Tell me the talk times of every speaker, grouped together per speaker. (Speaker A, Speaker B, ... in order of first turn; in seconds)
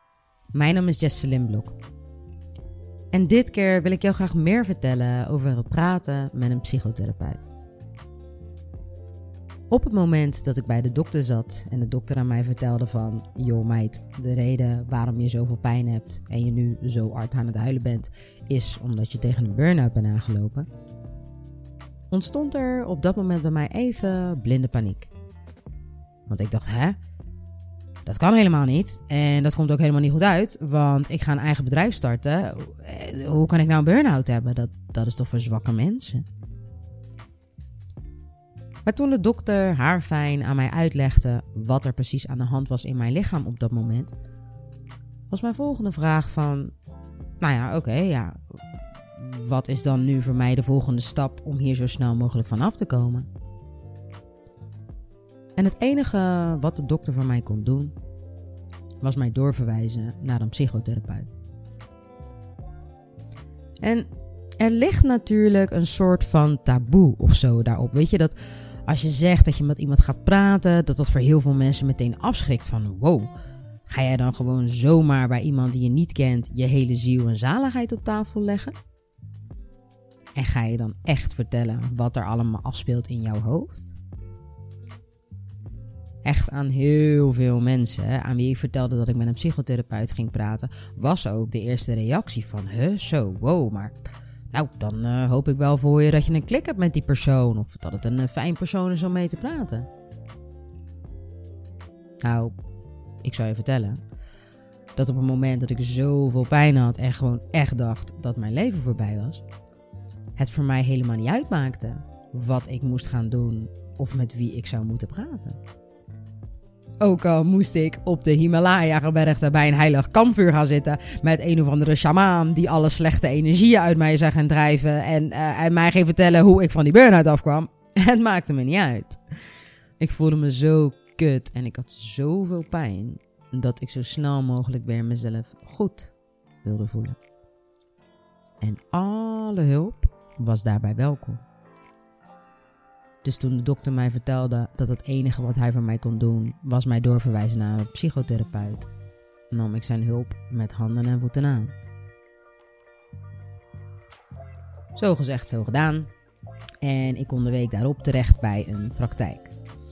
Speaker A: 0.5-1.8, 3.1-7.5, 9.7-20.7, 22.1-25.1, 26.3-27.0, 28.0-36.3, 38.9-44.1, 45.3-46.7, 47.4-48.6, 49.1-53.3, 55.6-58.0, 59.0-61.3, 63.8-64.1, 64.6-68.3, 68.9-73.3, 73.9-78.8, 80.3-83.9, 86.2-99.9, 102.2-102.5, 103.2-104.0, 105.0-109.4, 110.4-115.6, 117.0-129.2, 130.0-136.1, 136.6-137.2, 138.6-141.4, 143.2-148.9, 149.5-151.7, 154.9-156.1, 156.8-159.5